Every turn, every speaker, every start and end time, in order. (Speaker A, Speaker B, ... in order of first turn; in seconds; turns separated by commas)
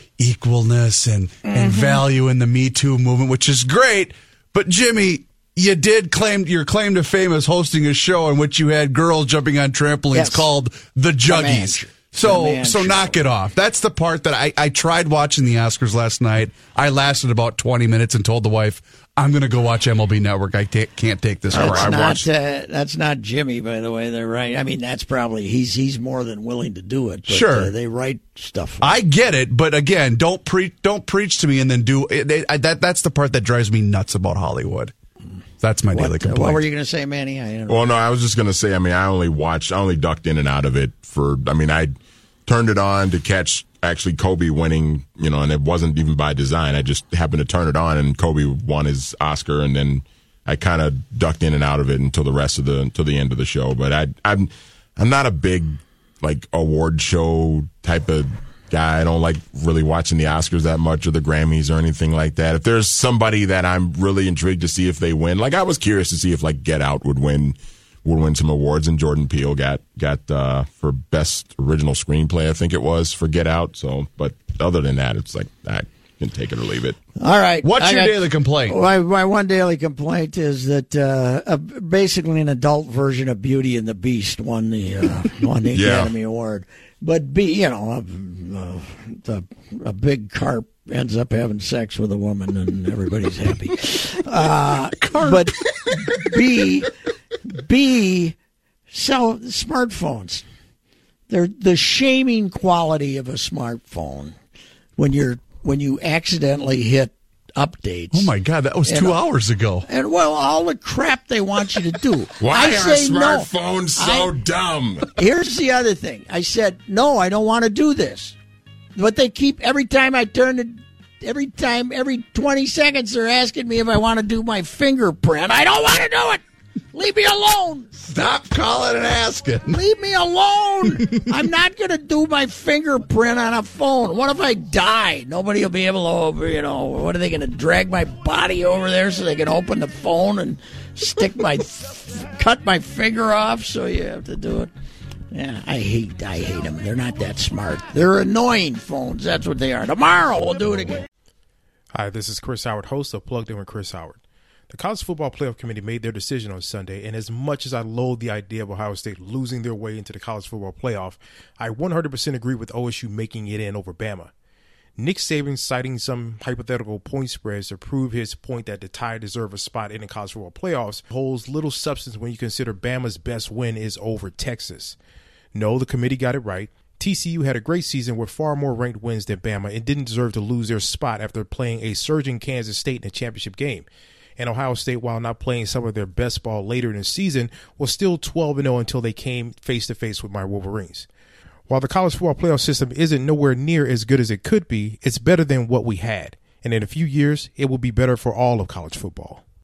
Speaker A: 0.2-22.1, Speaker B: 1.5-2.0, Speaker B: 10.1-10.5, Speaker B: 11.2-13.2, Speaker C: 21.5-22.2, Speaker B: 21.5-28.9, Speaker A: 27.3-27.7, Speaker A: 28.8-34.9, Speaker A: 35.6-36.6, Speaker B: 35.9-37.9, Speaker C: 37.7-41.9, Speaker C: 42.5-77.0, Speaker B: 77.2-96.9, Speaker A: 77.6-78.8, Speaker C: 85.7-86.1, Speaker A: 95.0-96.0, Speaker B: 97.5-98.3, Speaker B: 98.9-100.4, Speaker B: 101.3-104.3, Speaker B: 105.0-108.3, Speaker A: 108.1-109.8, Speaker B: 108.8-109.2, Speaker B: 109.9-114.3, Speaker C: 112.4-115.1, Speaker B: 115.1-118.3, Speaker B: 119.0-127.9, Speaker A: 128.0-129.8, Speaker B: 129.7-144.7, Speaker B: 145.3-151.1, Speaker D: 151.9-164.3, Speaker D: 165.0-174.9, Speaker D: 175.5-191.1, Speaker D: 191.7-199.4